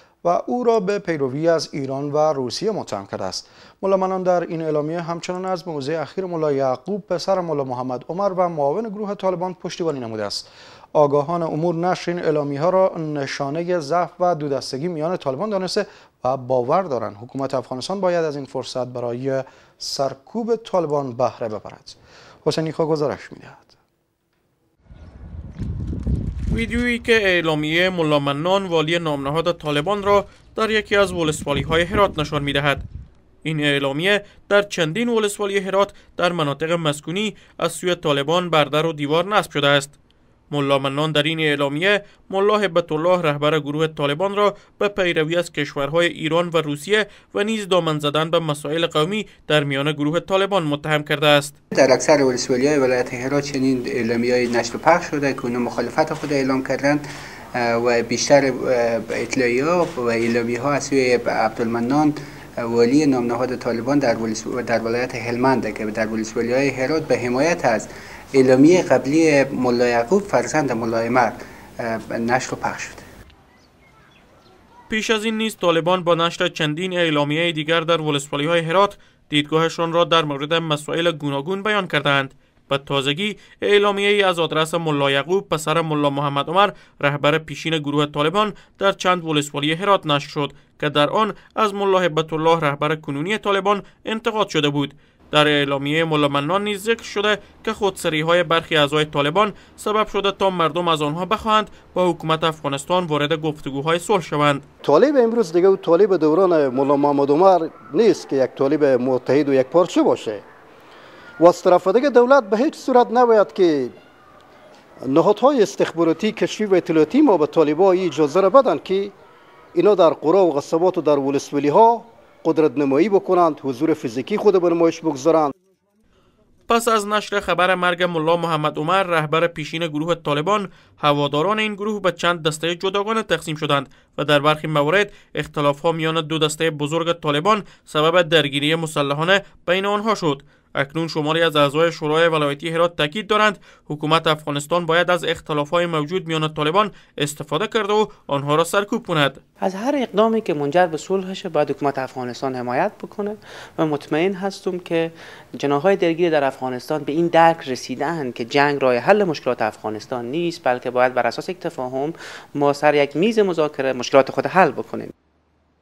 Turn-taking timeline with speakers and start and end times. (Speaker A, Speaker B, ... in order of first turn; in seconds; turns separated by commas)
Speaker A: 0.2-23.8, Speaker B: 26.5-32.8, Speaker B: 33.4-40.0, Speaker B: 40.5-51.5, Speaker C: 51.7-57.0, Speaker C: 57.5-73.0, Speaker B: 74.9-104.6, Speaker D: 104.9-110.4, Speaker D: 111.4-113.9, Speaker D: 115.1-119.1, Speaker D: 119.7-125.5, Speaker B: 126.7-149.4, Speaker E: 149.6-165.1